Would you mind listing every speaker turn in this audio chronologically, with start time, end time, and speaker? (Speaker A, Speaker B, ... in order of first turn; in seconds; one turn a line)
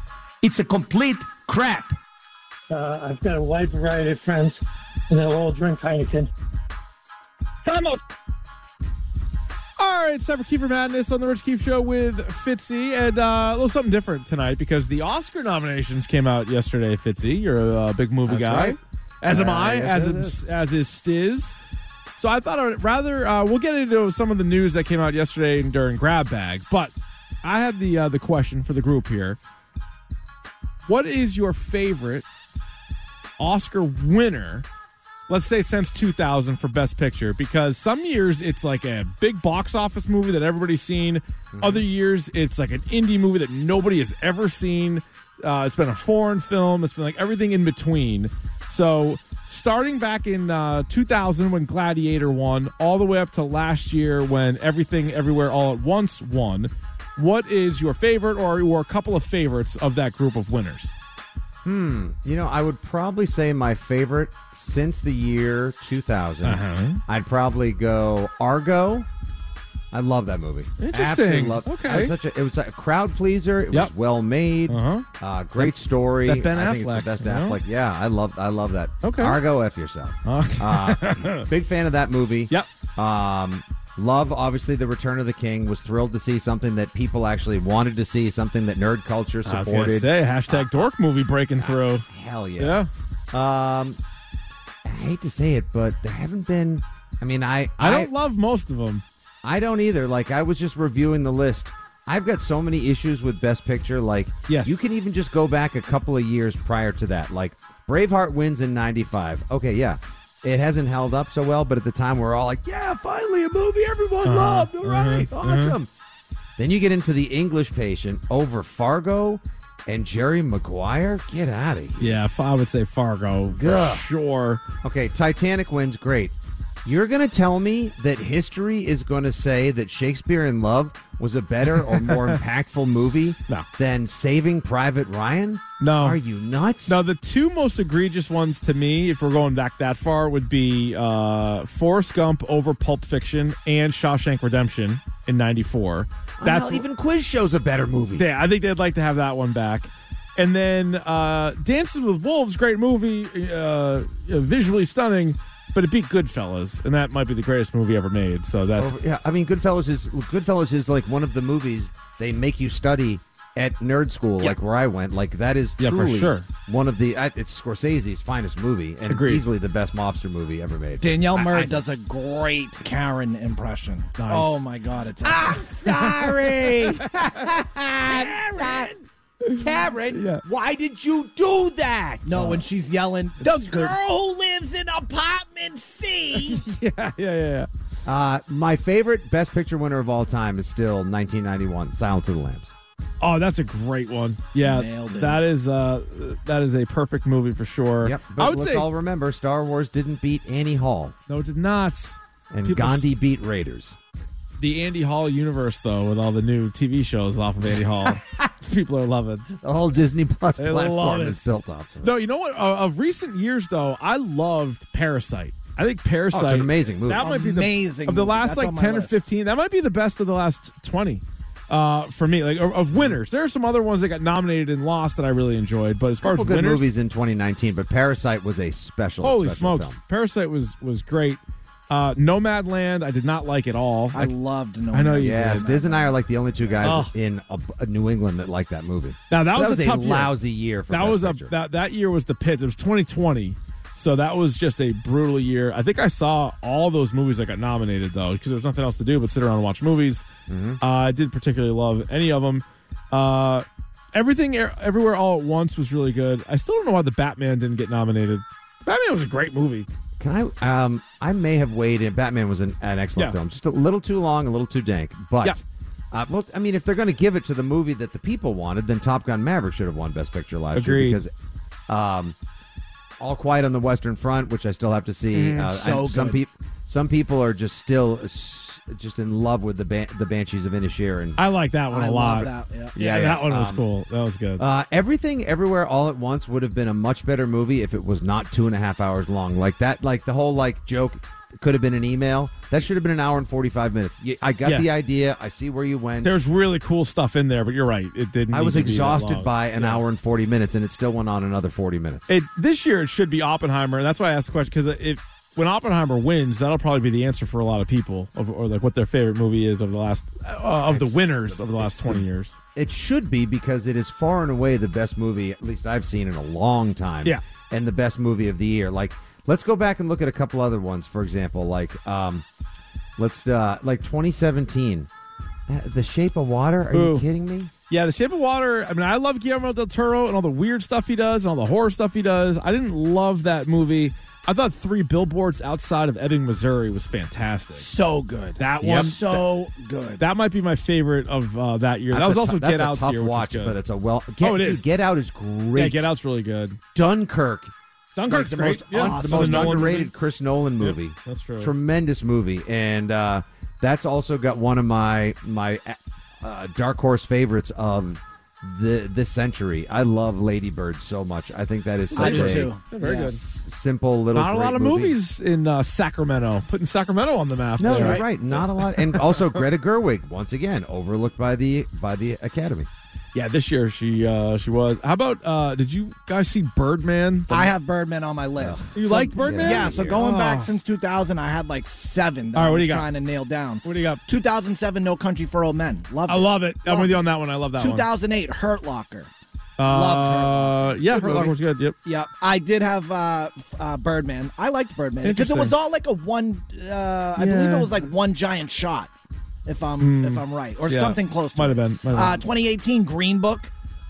Speaker A: 2.7-6.3
Speaker A: 7.7-8.0
Speaker B: 9.8-21.6
Speaker C: 18.3-20.4
Speaker B: 22.2-29.4
Speaker B: 30.9-32.2
Speaker B: 33.4-34.7
Speaker B: 35.3-60.9
Speaker C: 41.5-41.9
Speaker C: 61.6-69.1
Speaker B: 66.4-67.0
Speaker C: 69.9-90.9
Speaker B: 70.8-72.1
Speaker B: 74.7-75.1
Speaker B: 75.6-77.6
Speaker B: 79.0-79.4
Speaker B: 80.2-81.5
Speaker B: 89.5-92.1
Speaker C: 91.6-94.0
Speaker B: 92.6-92.9
Speaker C: 94.8-98.1
Speaker B: 97.8-99.0
Speaker C: 99.4-115.9
Speaker B: 104.5-104.8
Speaker B: 114.2-115.8
Speaker C: 116.6-122.2
Speaker B: 122.0-124.6
Speaker C: 123.5-124.1
Speaker C: 124.8-137.0
Speaker B: 131.7-132.4
Speaker B: 135.8-136.2
Speaker B: 136.9-146.9
Speaker C: 146.4-148.3
Speaker B: 148.2-158.9
Speaker C: 158.8-171.2
Speaker B: 165.8-166.5
Speaker B: 169.1-169.4
Speaker D: 171.0-175.6
Speaker B: 171.3-171.8
Speaker B: 174.2-174.5
Speaker C: 175.2-178.9
Speaker B: 175.8-177.6
Speaker B: 178.1-178.9
Speaker B: 179.4-180.4
Speaker C: 179.6-182.6
Speaker D: 182.2-186.6
Speaker B: 183.4-183.9
Speaker B: 186.4-187.7
Speaker C: 188.1-192.7
Speaker B: 193.2-198.9
Speaker D: 194.7-195.4
Speaker C: 198.0-201.2
Speaker B: 201.3-203.1
Speaker C: 202.5-204.0
Speaker B: 204.6-209.5
Speaker C: 209.6-212.2
Speaker B: 210.6-211.4
Speaker B: 212.0-226.9
Speaker C: 216.3-217.3
Speaker D: 217.2-219.2
Speaker C: 226.2-230.0
Speaker B: 229.2-234.3
Speaker D: 234.1-236.2
Speaker B: 234.9-235.7
Speaker C: 235.2-241.6
Speaker B: 236.8-237.1
Speaker B: 239.3-240.3
Speaker B: 240.9-250.3
Speaker C: 250.5-250.8
Speaker B: 250.8-259.9
Speaker C: 260.2-265.6
Speaker C: 266.1-271.3
Speaker B: 270.7-271.2
Speaker C: 271.9-272.4
Speaker C: 273.2-281.4
Speaker B: 275.3-275.8
Speaker D: 275.8-276.4
Speaker B: 281.4-284.6
Speaker D: 281.9-282.9
Speaker C: 283.0-283.8
Speaker C: 284.6-296.4
Speaker B: 294.6-294.9
Speaker B: 296.2-300.0
Speaker C: 298.5-302.3
Speaker B: 302.3-312.5
Speaker C: 310.8-322.4
Speaker C: 323.2-325.1
Speaker C: 325.7-327.7
Speaker B: 326.9-327.2
Speaker B: 327.9-337.9
Speaker D: 337.8-340.2
Speaker B: 338.6-339.4
Speaker B: 340.2-343.8
Speaker C: 342.1-346.1
Speaker B: 344.4-344.9
Speaker B: 345.8-346.8
Speaker C: 346.9-365.2
Speaker B: 348.2-350.1
Speaker D: 348.4-349.9
Speaker B: 350.8-351.7
Speaker B: 362.1-363.4
Speaker D: 362.2-363.3
Speaker B: 364.3-369.6
Speaker C: 367.8-372.9
Speaker D: 367.9-368.2
Speaker B: 373.3-377.7
Speaker D: 377.5-379.0
Speaker C: 378.6-380.2
Speaker B: 378.9-380.7
Speaker D: 379.6-389.3
Speaker B: 382.6-383.1
Speaker B: 383.8-384.2
Speaker B: 386.3-388.1
Speaker B: 389.8-392.0
Speaker D: 389.8-391.5
Speaker C: 391.1-391.6
Speaker D: 392.1-399.1
Speaker B: 395.2-395.7
Speaker B: 397.4-397.9
Speaker D: 399.7-403.7
Speaker B: 400.0-402.4